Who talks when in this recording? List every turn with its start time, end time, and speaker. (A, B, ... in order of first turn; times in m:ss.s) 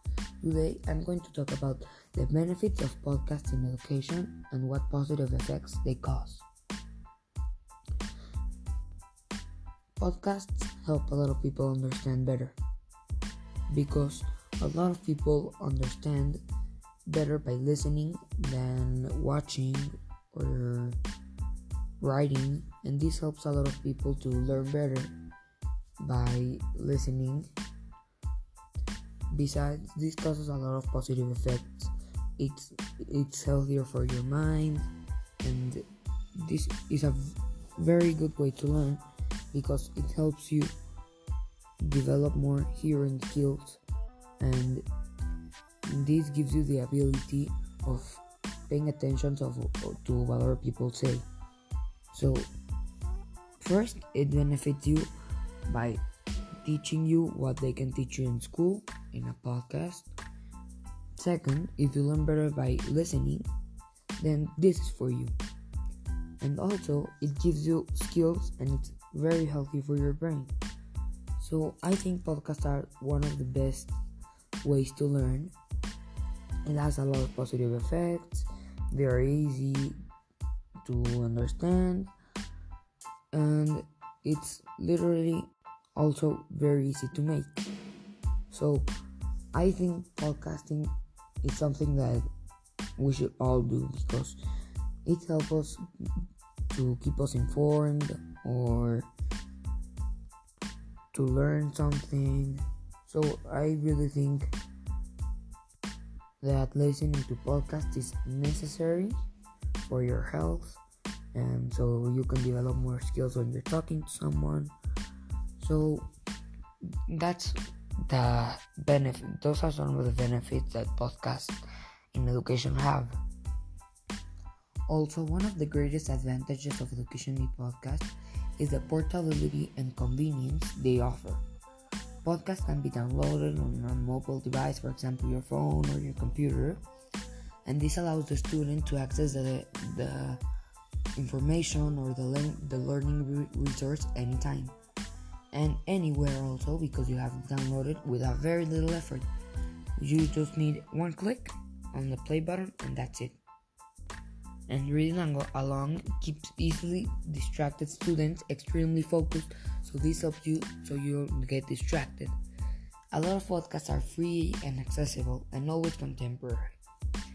0:00.4-0:06.5 A
0:10.0-0:12.6 A
0:13.7-0:16.4 A
0:17.1-0:21.0 A
0:22.0-0:25.1 A
0:26.0-0:27.5 A
0:29.3-0:34.9 A
0:35.4-0:35.8 A
0:36.4-0:39.0 A
0:39.5-0:40.7 A
0:41.8-0:43.8 A
0:44.4-0:44.8 A
0:45.9-0:51.3 A
0:52.1-0:52.5 A
0:53.6-0:55.1 A
0:55.7-0:56.0 A
0:56.6-1:00.1 A
1:01.2-1:03.5 A
1:04.2-1:05.4 A
1:06.4-1:10.5 A
1:11.4-1:13.9 A
1:14.6-1:15.5 A
1:16.7-1:20.0 A
1:20.8-1:22.1 A
1:23.3-1:27.6 A
1:28.5-1:28.9 A
1:29.5-1:32.3 A
1:33.0-1:34.4 A
1:35.0-1:35.8 A
1:36.7-1:39.1 A
1:41.1-1:44.5 A
1:46.4-1:49.2 A
1:49.8-1:50.8 A
1:51.3-1:54.7 A
1:55.6-1:56.1 A
1:57.1-2:01.6 A
2:02.1-2:03.2 A
2:04.9-2:11.4 A
2:12.2-2:16.8 A
2:17.7-2:20.4 A
2:21.2-2:24.8 A
2:25.5-2:29.2 A
2:30.0-2:33.4 A
2:34.7-2:42.3 A
2:43.1-2:46.7 A